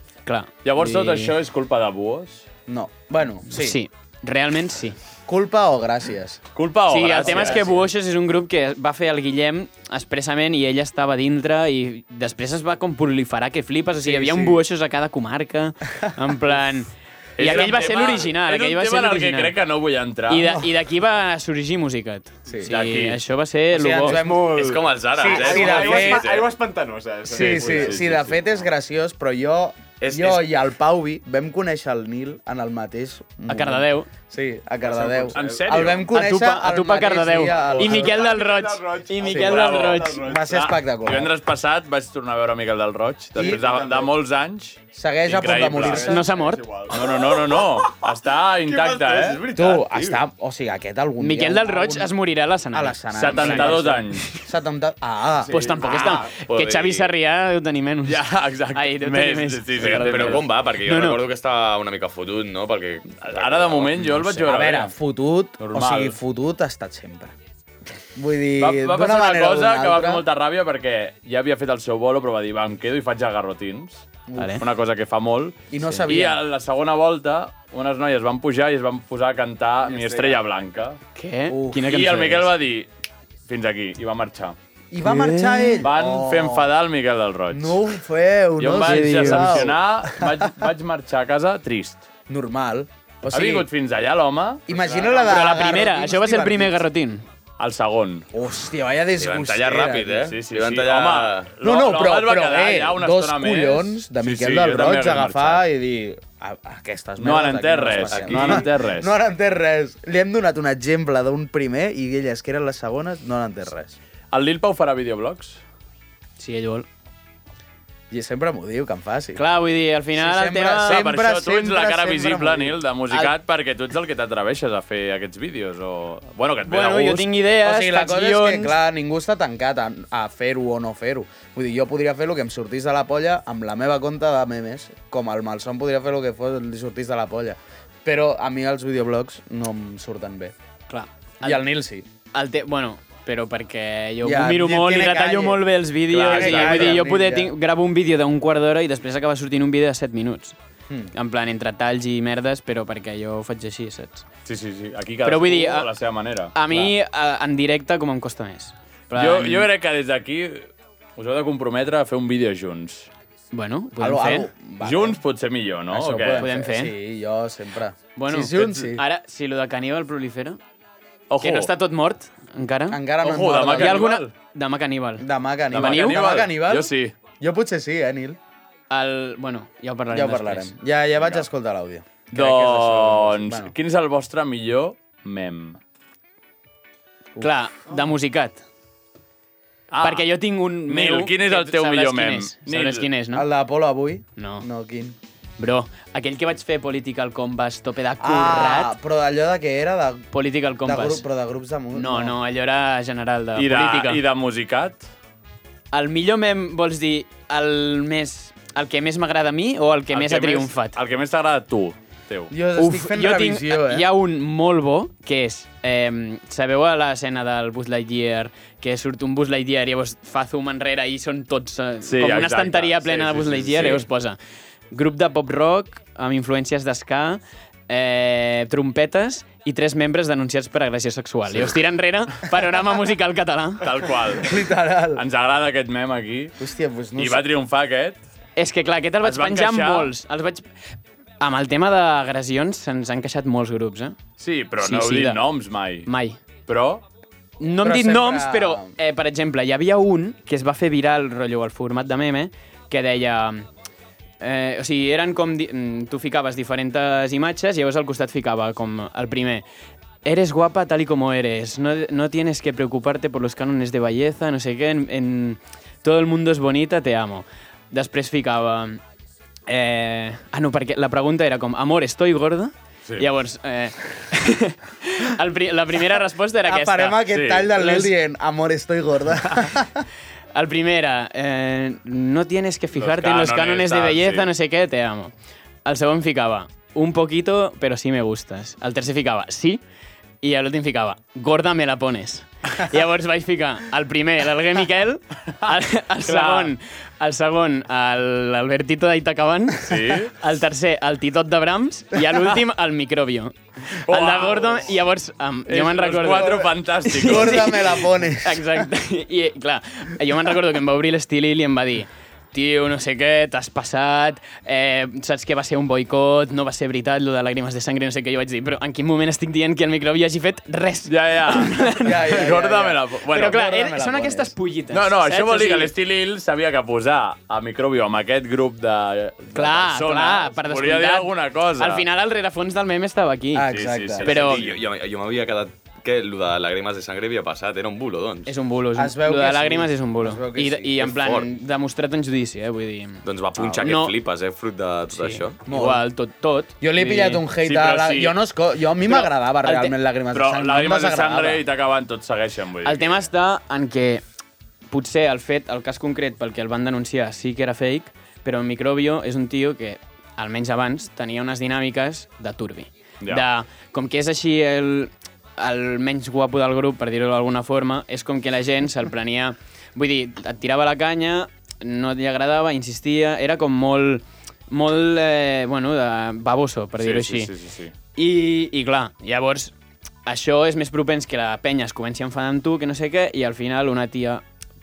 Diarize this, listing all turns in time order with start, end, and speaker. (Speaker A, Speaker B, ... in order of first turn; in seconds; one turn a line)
Speaker A: 0.2-1.3
Speaker B: 0.6-2.4
Speaker C: 2.7-3.8
Speaker A: 3.5-5.0
Speaker C: 5.3-6.4
Speaker B: 6.5-7.8
Speaker A: 6.9-19.5
Speaker C: 7.2-7.7
Speaker C: 14.0-14.6
Speaker B: 17.4-20.6
Speaker A: 20.3-24.2
Speaker B: 22.7-23.2
Speaker C: 23.7-26.4
Speaker D: 24.1-28.3
Speaker E: 24.2-26.6
Speaker B: 27.3-28.2
Speaker C: 27.3-38.2
Speaker E: 27.4-27.9
Speaker E: 30.0-30.4
Speaker A: 33.5-34.1
Speaker D: 34.8-35.6
Speaker B: 35.3-36.1
Speaker A: 36.1-40.2
Speaker D: 37.5-40.6
Speaker B: 39.3-46.1
Speaker C: 39.3-39.6
Speaker C: 40.2-41.3
Speaker C: 43.4-43.6
Speaker D: 43.4-44.1
Speaker C: 44.9-46.3
Speaker D: 45.6-47.6
Speaker A: 46.0-46.6
Speaker B: 46.9-49.4
Speaker D: 48.7-49.8
Speaker E: 48.9-50.2
Speaker C: 49.5-52.1
Speaker A: 51.2-54.3
Speaker C: 52.7-55.6
Speaker B: 53.1-54.2
Speaker A: 55.5-61.2
Speaker D: 55.5-56.2
Speaker E: 55.8-57.1
Speaker B: 58.0-60.5
Speaker E: 59.8-64.1
Speaker B: 63.2-64.9
Speaker A: 64.1-64.5
Speaker C: 64.4-67.3
Speaker B: 65.6-66.2
Speaker C: 68.2-70.2
Speaker B: 68.5-74.0
Speaker C: 74.3-74.6
Speaker A: 74.4-74.6
Speaker B: 74.6-81.0
Speaker C: 75.7-76.4
Speaker A: 81.1-82.5
Speaker C: 81.5-81.9
Speaker B: 81.7-82.9
Speaker B: 83.5-84.5
Speaker C: 84.9-86.7
Speaker A: 85.0-85.8
Speaker B: 85.8-87.8
Speaker C: 87.5-90.7
Speaker B: 88.6-92.0
Speaker A: 88.8-89.6
Speaker C: 92.3-93.7
Speaker B: 93.3-95.3
Speaker C: 94.7-96.8
Speaker A: 95.2-97.2
Speaker B: 97.6-98.2
Speaker C: 98.3-100.3
Speaker E: 99.2-101.5
Speaker B: 100.2-105.6
Speaker C: 101.6-114.0
Speaker B: 107.2-109.1
Speaker E: 108.1-108.7
Speaker B: 114.3-115.6
Speaker A: 116.4-116.8
Speaker C: 118.1-119.4
Speaker A: 119.3-121.0
Speaker C: 120.1-122.8
Speaker B: 120.8-127.3
Speaker A: 126.7-128.8
Speaker C: 127.6-140.5
Speaker A: 140.9-141.6
Speaker C: 141.4-142.1
Speaker A: 142.3-150.6
Speaker C: 144.2-147.5
Speaker B: 146.1-147.0
Speaker A: 151.1-154.2
Speaker B: 154.4-156.9
Speaker A: 155.2-155.9
Speaker A: 156.5-159.7
Speaker B: 159.1-163.1
Speaker A: 163.5-164.5
Speaker C: 164.0-165.2
Speaker B: 164.8-166.4
Speaker C: 165.9-169.0
Speaker A: 166.4-166.9
Speaker A: 168.2-170.6
Speaker B: 171.3-171.7
Speaker A: 171.4-173.0
Speaker C: 172.9-174.2
Speaker B: 173.2-174.3
Speaker A: 173.7-176.2
Speaker C: 175.2-178.4
Speaker B: 175.7-177.1
Speaker A: 178.9-180.7
Speaker C: 180.1-183.7
Speaker B: 181.2-181.4
Speaker B: 182.3-185.8
Speaker A: 187.4-188.6
Speaker B: 189.9-193.1
Speaker A: 190.0-193.5
Speaker C: 193.3-195.2
Speaker A: 194.4-194.7
Speaker A: 195.6-198.9
Speaker C: 198.2-200.3
Speaker A: 200.3-201.2
Speaker C: 200.8-202.4
Speaker A: 201.9-204.2
Speaker B: 203.6-205.1
Speaker A: 205.9-211.0
Speaker B: 210.1-212.5
Speaker C: 212.5-214.1
Speaker A: 212.8-224.4
Speaker B: 222.0-224.0
Speaker A: 224.9-233.8
Speaker B: 233.8-234.6
Speaker C: 234.4-235.2
Speaker B: 235.1-236.6
Speaker C: 236.6-237.4
Speaker B: 237.1-238.2
Speaker A: 238.6-240.7
Speaker B: 239.2-240.1
Speaker A: 241.4-244.2
Speaker B: 244.4-246.1
Speaker A: 244.8-245.4
Speaker A: 246.1-246.4
Speaker B: 246.7-247.0
Speaker A: 247.6-253.7
Speaker C: 247.8-248.9
Speaker A: 254.4-259.6
Speaker A: 260.2-269.0
Speaker A: 269.7-277.3
Speaker C: 276.6-280.0
Speaker B: 277.3-277.9
Speaker A: 280.5-285.3
Speaker B: 282.9-284.5
Speaker A: 285.8-289.8
Speaker A: 290.4-322.4
Speaker B: 296.2-296.7
Speaker B: 299.8-300.3
Speaker B: 303.9-304.9
Speaker B: 305.7-307.6
Speaker C: 306.4-308.9
Speaker B: 321.1-323.6
Speaker C: 322.0-324.5
Speaker A: 323.3-325.9
Speaker B: 324.9-332.0
Speaker A: 329.5-333.7
Speaker C: 333.5-334.3
Speaker B: 333.7-334.8
Speaker A: 334.2-334.6
Speaker E: 334.3-338.5
Speaker A: 338.4-343.2
Speaker C: 338.9-341.3
Speaker E: 341.0-341.5
Speaker E: 343.2-345.6
Speaker A: 343.8-344.1
Speaker A: 345.1-347.4
Speaker C: 345.6-346.0
Speaker C: 346.8-351.6
Speaker B: 347.6-348.3
Speaker A: 349.0-349.9
Speaker B: 350.3-353.1
Speaker A: 352.8-354.2
Speaker A: 354.9-377.5
Speaker B: 377.0-377.9
Speaker A: 378.1-379.7
Speaker A: 380.2-384.4